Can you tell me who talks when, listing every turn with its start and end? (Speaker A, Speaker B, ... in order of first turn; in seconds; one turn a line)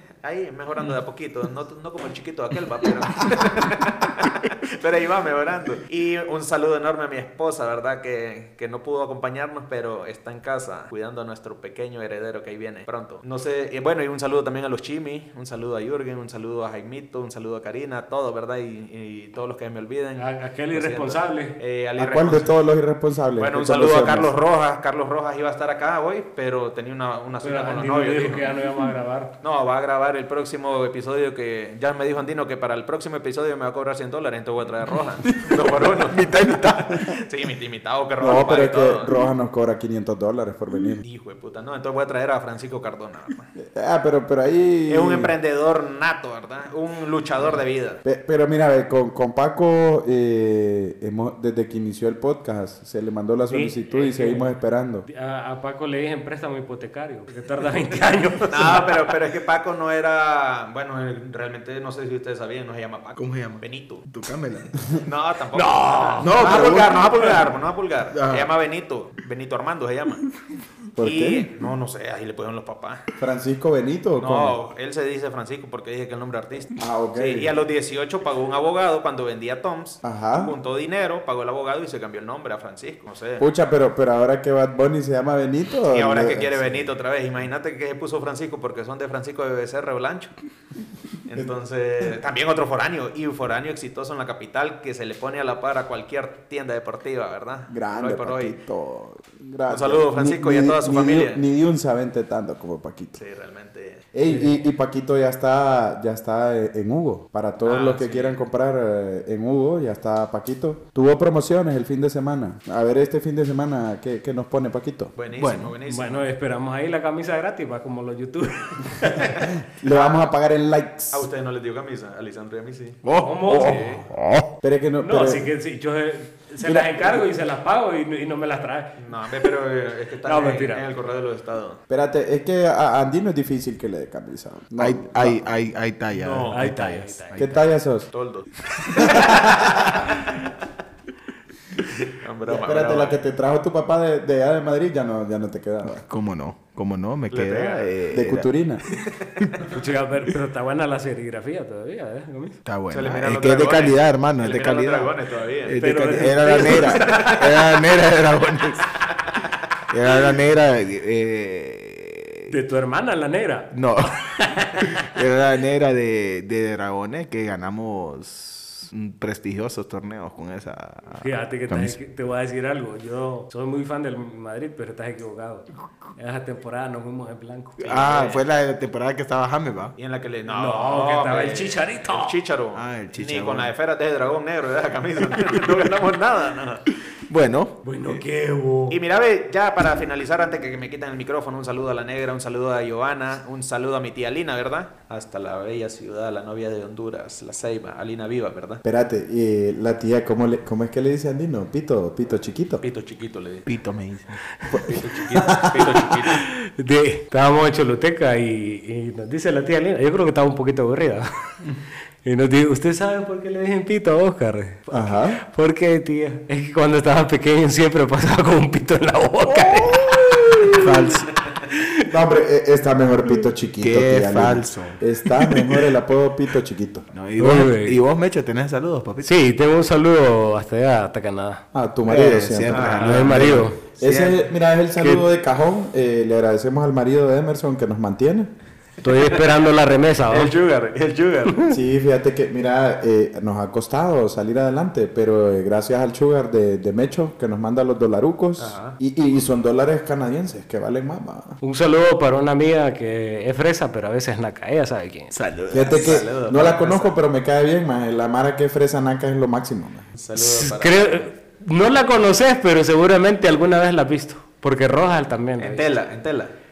Speaker A: 0.2-22.5
Speaker B: 20.2-21.5
Speaker C: 22.0-24.3
Speaker A: 23.4-28.5
Speaker B: 27.4-29.3
Speaker A: 29.4-39.1
Speaker D: 35.3-37.2
Speaker C: 38.2-41.0
Speaker A: 41.0-43.5
Speaker C: 43.5-45.3
Speaker A: 44.9-48.0
Speaker C: 48.0-55.0
Speaker B: 53.5-54.5
Speaker B: 55.0-59.0
Speaker A: 58.5-64.0
Speaker D: 63.1-64.7
Speaker A: 64.9-70.2
Speaker B: 65.5-66.7
Speaker D: 66.2-67.3
Speaker D: 68.1-68.5
Speaker C: 71.0-71.5
Speaker A: 71.0-73.0
Speaker C: 73.2-74.6
Speaker A: 74.2-83.5
Speaker C: 76.8-77.5
Speaker C: 80.0-80.6
Speaker C: 83.4-86.9
Speaker A: 85.9-90.3
Speaker A: 91.3-98.5
Speaker C: 97.7-103.2
Speaker A: 99.7-101.4
Speaker A: 103.2-104.0
Speaker C: 104.1-115.1
Speaker A: 107.6-108.4
Speaker A: 115.2-116.3
Speaker D: 115.3-115.7
Speaker B: 115.8-119.5
Speaker C: 119.7-121.3
Speaker A: 119.8-120.3
Speaker A: 121.1-123.0
Speaker D: 123.0-124.5
Speaker B: 123.2-124.0
Speaker C: 124.6-125.5
Speaker B: 125.0-129.5
Speaker C: 126.6-127.2
Speaker A: 129.0-131.8
Speaker B: 130.2-130.8
Speaker C: 131.9-135.5
Speaker D: 134.8-137.5
Speaker A: 136.1-136.7
Speaker B: 136.5-137.6
Speaker C: 137.3-138.1
Speaker A: 138.1-140.5
Speaker C: 138.9-140.0
Speaker A: 141.9-143.2
Speaker C: 142.4-146.0
Speaker D: 146.0-148.5
Speaker A: 147.3-147.9
Speaker C: 148.1-148.8
Speaker A: 149.1-149.7
Speaker B: 149.7-152.6
Speaker D: 152.6-158.8
Speaker A: 152.9-155.7
Speaker B: 155.8-157.7
Speaker C: 156.6-157.0
Speaker A: 156.8-157.7
Speaker D: 159.9-162.5
Speaker B: 162.5-163.7
Speaker D: 163.7-172.0
Speaker B: 164.3-165.1
Speaker B: 171.2-178.1
Speaker D: 177.8-179.9
Speaker A: 177.9-178.4
Speaker A: 180.0-186.9
Speaker B: 180.5-182.4
Speaker D: 182.7-183.7
Speaker D: 187.3-188.2
Speaker B: 187.8-189.0
Speaker A: 188.9-198.8
Speaker C: 198.8-202.8
Speaker A: 202.8-203.6
Speaker D: 203.6-204.4
Speaker C: 204.7-206.2
Speaker A: 204.7-206.4
Speaker B: 206.3-211.5
Speaker B: 212.2-221.1
Speaker C: 214.9-215.4
Speaker D: 219.5-221.3
Speaker B: 221.7-221.9
Speaker C: 222.1-227.1
Speaker D: 223.8-225.0
Speaker D: 227.1-229.3
Speaker B: 227.4-228.0
Speaker B: 229.2-231.6
Speaker C: 231.7-238.5
Speaker D: 232.1-234.4
Speaker A: 232.7-233.1
Speaker B: 233.0-233.8
Speaker B: 235.0-235.2
Speaker B: 239.0-240.5
Speaker A: 240.3-241.6
Speaker C: 241.7-251.6
Speaker A: 248.6-249.0
Speaker B: 251.6-255.3
Speaker D: 255.3-256.2
Speaker C: 255.7-260.1
Speaker A: 255.8-257.1
Speaker A: 260.2-261.2
Speaker B: 260.4-265.9
Speaker A: 265.6-266.5